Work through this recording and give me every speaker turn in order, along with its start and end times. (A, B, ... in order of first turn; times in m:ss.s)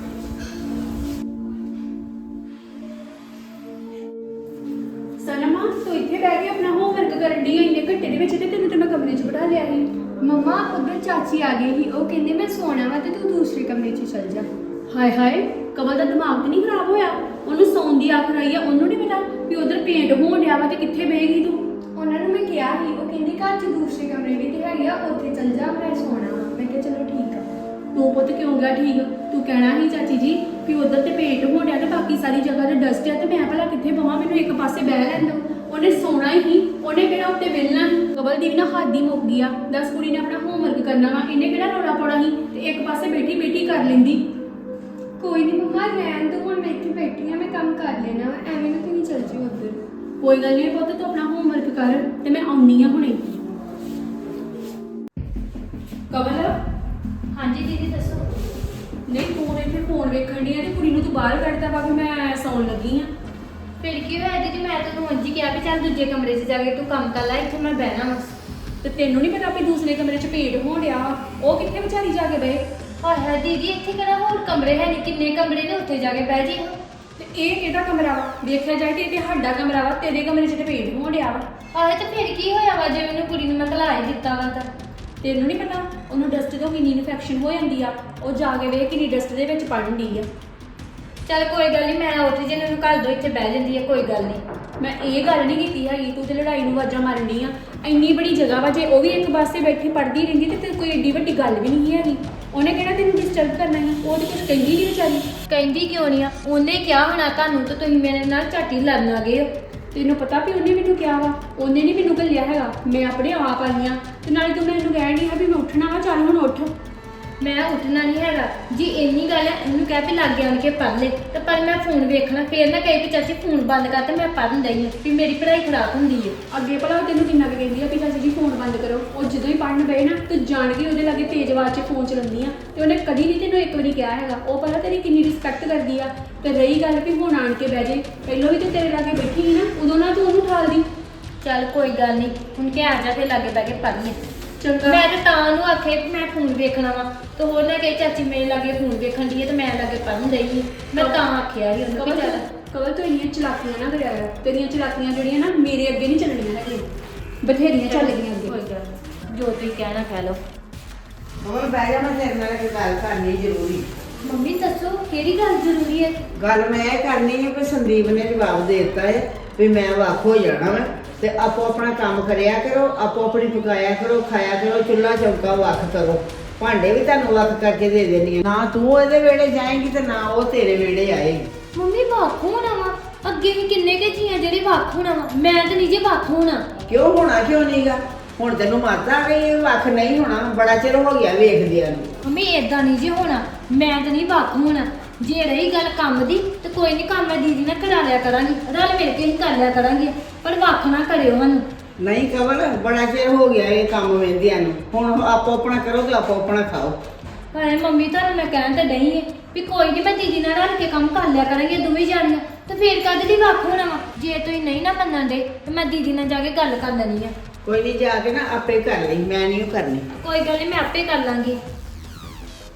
0:05.2-0:09.9 A
0:10.2-0:14.5 B
0:14.9-0:21.6 A
0:22.0-0:27.4 B
0:27.9-0:44.2 A
0:45.2-0:49.8 B
0:50.2-0:53.4 A
0:56.1-0:56.6 A
0:57.3-0:58.2 C
0:59.1-1:03.1 A
1:03.8-1:08.3 C
1:08.8-1:12.6 A
1:13.0-1:16.8 C
1:17.2-1:21.5 A
1:21.7-1:24.7 C
1:25.2-1:30.3 A
1:31.3-1:34.4 C
1:34.8-1:45.3 A
1:45.5-1:49.5 C
1:49.9-1:56.7 A
1:57.4-2:06.4 C
2:06.5-2:20.9 A
2:21.4-2:24.2 C
2:24.6-2:25.0 A
2:24.8-2:32.4 C
2:31.0-2:31.2 A
2:32.0-2:36.9 A
2:37.4-2:38.5 A
2:37.8-2:40.4 C
2:41.4-2:43.9 D
2:44.2-2:46.2 C
2:46.4-3:01.5 D
3:01.7-3:06.6 C
3:06.9-3:12.1 D
3:12.2-3:21.7 C
3:22.0-3:27.0 D
3:27.5-3:37.3 C
3:37.6-3:40.1 D
3:40.1-3:41.6 C